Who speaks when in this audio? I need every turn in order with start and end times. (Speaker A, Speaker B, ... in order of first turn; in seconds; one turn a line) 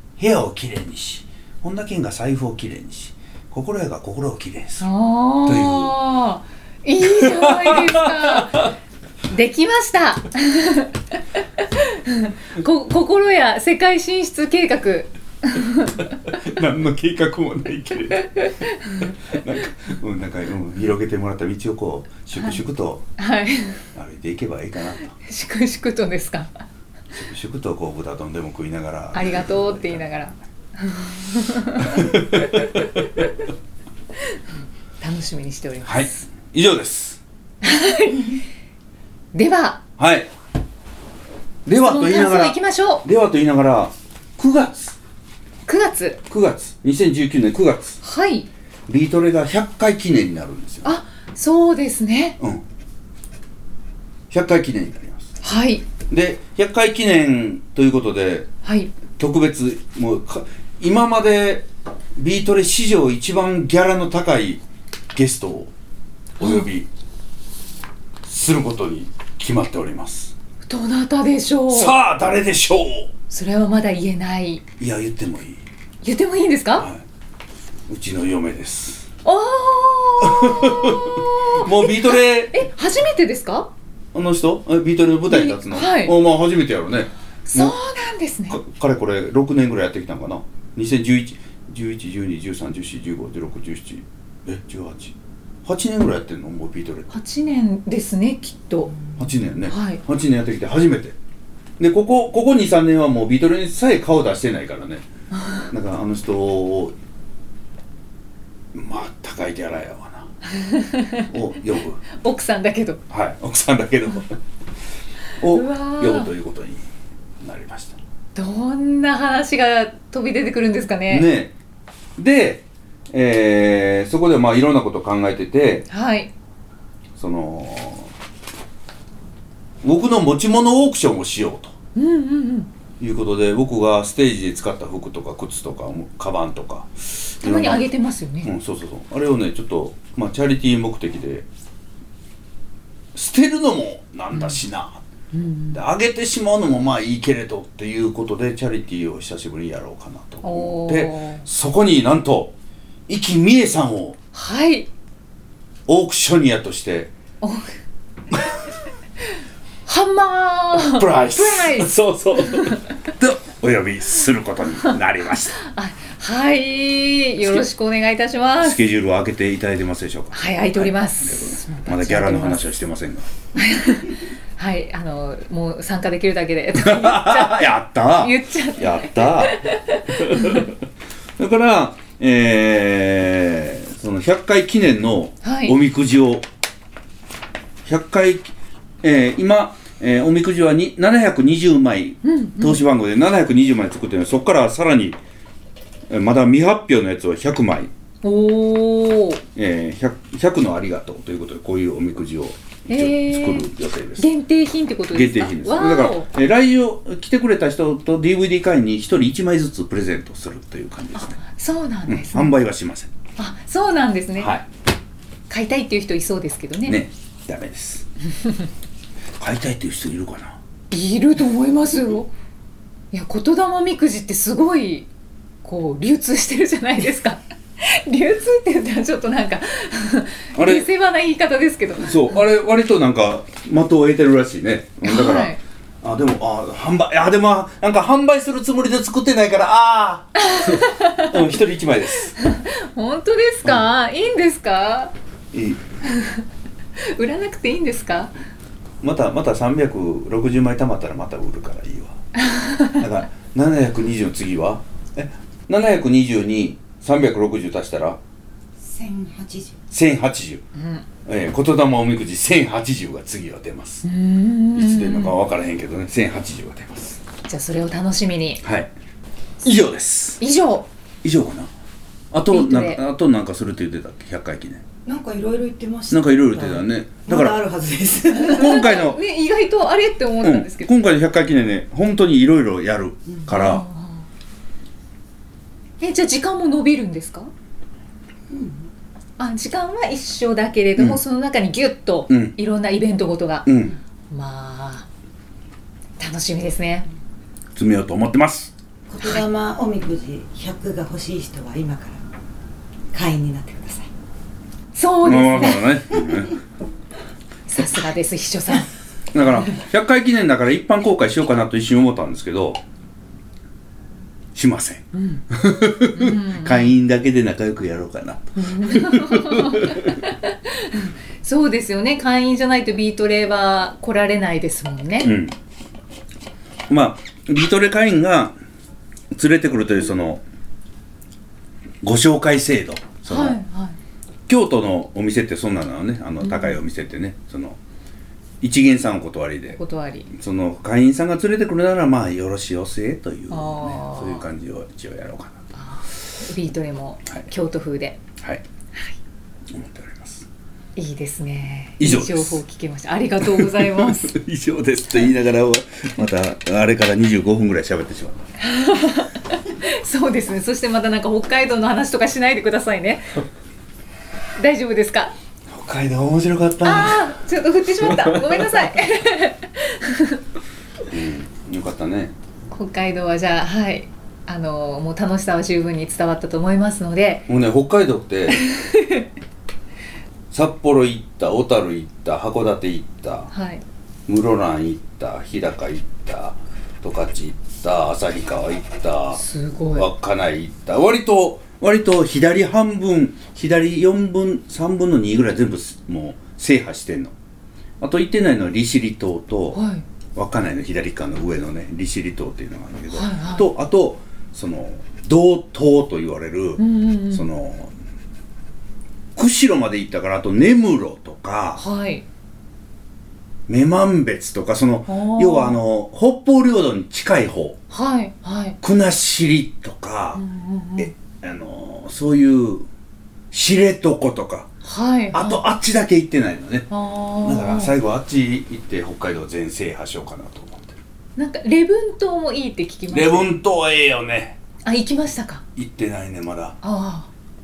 Speaker A: 0.2-4.9
Speaker B: 4.8-8.7
Speaker A: 5.5-6.0
Speaker A: 7.0-8.7
Speaker B: 9.3-16.3
Speaker A: 16.3-23.1
Speaker B: 18.3-19.2
Speaker B: 23.2-23.8
Speaker A: 23.9-25.1
Speaker B: 25.1-26.6
Speaker A: 27.1-30.1
Speaker B: 29.1-33.3
Speaker A: 31.8-32.8
Speaker B: 35.0-36.3
Speaker A: 35.8-37.2
Speaker B: 37.6-38.4
Speaker B: 39.3-39.8
Speaker A: 40.0-40.3
Speaker A: 41.7-45.0
Speaker B: 41.8-43.0
Speaker B: 45.7-46.2
Speaker A: 46.3-48.0
Speaker B: 48.0-48.5
Speaker A: 48.9-50.9
Speaker B: 50.8-52.4
Speaker A: 54.3-55.4
Speaker B: 55.4-55.9
Speaker A: 56.1-58.5
Speaker B: 58.6-58.9
Speaker A: 59.1-64.6
Speaker A: 65.1-65.7
Speaker A: 66.4-66.9
Speaker B: 66.4-66.7
Speaker A: 68.2-70.3
Speaker B: 70.7-71.9
Speaker A: 71.7-73.1
Speaker B: 73.3-74.6
Speaker A: 74.8-75.6
Speaker B: 76.0-76.9
Speaker A: 76.8-77.0
Speaker A: 77.9-79.1
Speaker B: 79.2-83.7
Speaker A: 80.2-82.7
Speaker A: 84.1-87.8
Speaker B: 85.3-86.2
Speaker B: 87.5-88.6
Speaker A: 88.5-97.1
Speaker B: 97.1-99.0
Speaker A: 99.2-101.2
Speaker B: 99.7-100.0
Speaker A: 101.8-105.0
Speaker B: 105.4-105.7
Speaker A: 105.7-107.0
Speaker A: 108.7-110.3
Speaker B: 110.5-111.3
Speaker A: 111.3-112.0
Speaker B: 112.1-113.0
Speaker A: 113.1-114.3
Speaker A: 115.4-116.8
Speaker B: 115.5-116.3
Speaker A: 117.4-118.0
Speaker B: 118.3-121.3
Speaker A: 121.1-121.5
Speaker A: 122.2-125.9
Speaker B: 125.9-126.3
Speaker A: 127.2-128.1
Speaker A: 129.8-131.8
Speaker B: 132.0-132.7
Speaker A: 133.0-137.9
Speaker B: 137.4-138.5
Speaker A: 138.4-141.5
Speaker A: 143.1-145.0
Speaker B: 145.3-145.8
Speaker A: 145.7-152.5
Speaker B: 150.4-151.5
Speaker A: 153.1-154.2
Speaker B: 154.3-154.9
Speaker A: 155.9-157.1
Speaker B: 157.4-157.7
Speaker B: 159.9-162.8
Speaker A: 160.7-165.6
Speaker B: 165.6-168.8
Speaker A: 168.6-173.3
Speaker B: 170.3-172.6
Speaker B: 173.6-180.7
Speaker A: 176.8-180.8
Speaker A: 181.4-186.4
Speaker B: 185.4-185.8
Speaker A: 187.8-195.2
Speaker B: 192.2-192.8
Speaker A: 196.1-197.9
Speaker B: 198.2-199.4
Speaker A: 199.6-204.3
Speaker B: 202.9-206.3
Speaker A: 205.1-211.4
Speaker B: 211.2-212.5
Speaker A: 212.1-213.1
Speaker B: 213.4-214.5
Speaker A: 214.4-214.7
Speaker B: 215.5-217.0
Speaker A: 216.9-218.1
Speaker A: 219.4-220.6
Speaker B: 220.9-222.3
Speaker B: 223.1-225.1
Speaker B: 225.6-232.4
Speaker A: 230.6-230.9
Speaker A: 232.0-242.3
Speaker B: 235.0-235.6
Speaker B: 240.4-241.4
Speaker B: 242.4-245.1
Speaker A: 245.5-245.8
Speaker B: 246.1-246.4
Speaker B: 247.0-248.3
Speaker A: 249.0-252.2
Speaker B: 252.4-253.0
Speaker A: 253.0-258.2
Speaker C: 258.8-259.8
Speaker A: 259.9-260.6
Speaker B: 260.8-261.1
Speaker A: 261.3-264.0
Speaker B: 264.0-265.4
Speaker A: 264.8-267.2
Speaker B: 267.5-268.6
Speaker A: 268.6-268.9
Speaker A: 269.6-270.4
Speaker B: 270.4-270.9
Speaker A: 271.2-271.7
Speaker A: 272.3-274.8
Speaker B: 272.5-273.0
Speaker C: 275.1-278.8
Speaker A: 276.1-277.6
Speaker A: 278.4-279.2
Speaker B: 278.4-280.9
Speaker A: 280.4-283.9
Speaker B: 283.5-284.3
Speaker B: 286.0-287.5
Speaker C: 288.5-288.8
Speaker B: 289.4-293.7
Speaker A: 292.3-292.6
Speaker A: 293.7-294.0
Speaker B: 294.3-295.1
Speaker B: 296.2-297.1
Speaker A: 297.8-298.7
Speaker C: 299.1-302.2
Speaker C: 303.1-304.1
Speaker B: 304.9-305.9
Speaker A: 305.2-306.6
Speaker C: 306.2-306.4
Speaker B: 307.7-308.9
Speaker A: 309.3-312.8
Speaker A: 314.6-320.1
Speaker B: 315.1-315.5
Speaker B: 316.0-316.9
Speaker B: 318.6-325.3
Speaker A: 325.2-325.6
Speaker A: 326.9-328.6
Speaker A: 329.3-330.4
Speaker A: 332.0-333.6
Speaker B: 333.3-334.0
Speaker A: 334.5-337.8
Speaker B: 336.4-336.8
Speaker A: 338.6-339.8
Speaker B: 339.7-340.3
Speaker A: 340.3-345.6
Speaker B: 343.5-344.4
Speaker B: 345.8-348.2
Speaker A: 349.7-350.5
Speaker B: 351.0-354.3
Speaker A: 352.0-352.6
Speaker A: 353.4-358.4
Speaker B: 358.6-363.4
Speaker B: 364.6-365.3
Speaker A: 365.7-367.4
Speaker B: 366.8-370.4
Speaker A: 367.9-368.9
Speaker A: 371.1-372.3
Speaker B: 372.7-377.5
Speaker A: 377.5-378.6
Speaker B: 378.5-379.3
Speaker A: 380.5-383.5
Speaker B: 383.5-383.8
Speaker A: 384.3-389.4
Speaker B: 389.3-390.1
Speaker A: 389.9-397.3
Speaker A: 398.0-399.8
Speaker B: 399.7-400.0
Speaker A: 400.4-407.9
Speaker B: 403.1-403.7
Speaker B: 406.8-407.5
Speaker A: 409.4-411.8
Speaker B: 411.8-412.2
Speaker A: 413.7-417.8
Speaker B: 415.1-415.8
Speaker B: 417.9-418.8
Speaker A: 418.8-420.4
Speaker B: 420.4-421.1
Speaker A: 421.0-422.9
Speaker A: 423.5-424.7
Speaker B: 424.8-425.6
Speaker A: 425.3-426.9
Speaker B: 426.9-427.9
Speaker A: 427.4-431.0
Speaker B: 431.4-433.5
Speaker A: 433.1-434.6
Speaker B: 434.9-435.6
Speaker A: 435.8-436.8
Speaker B: 436.8-437.3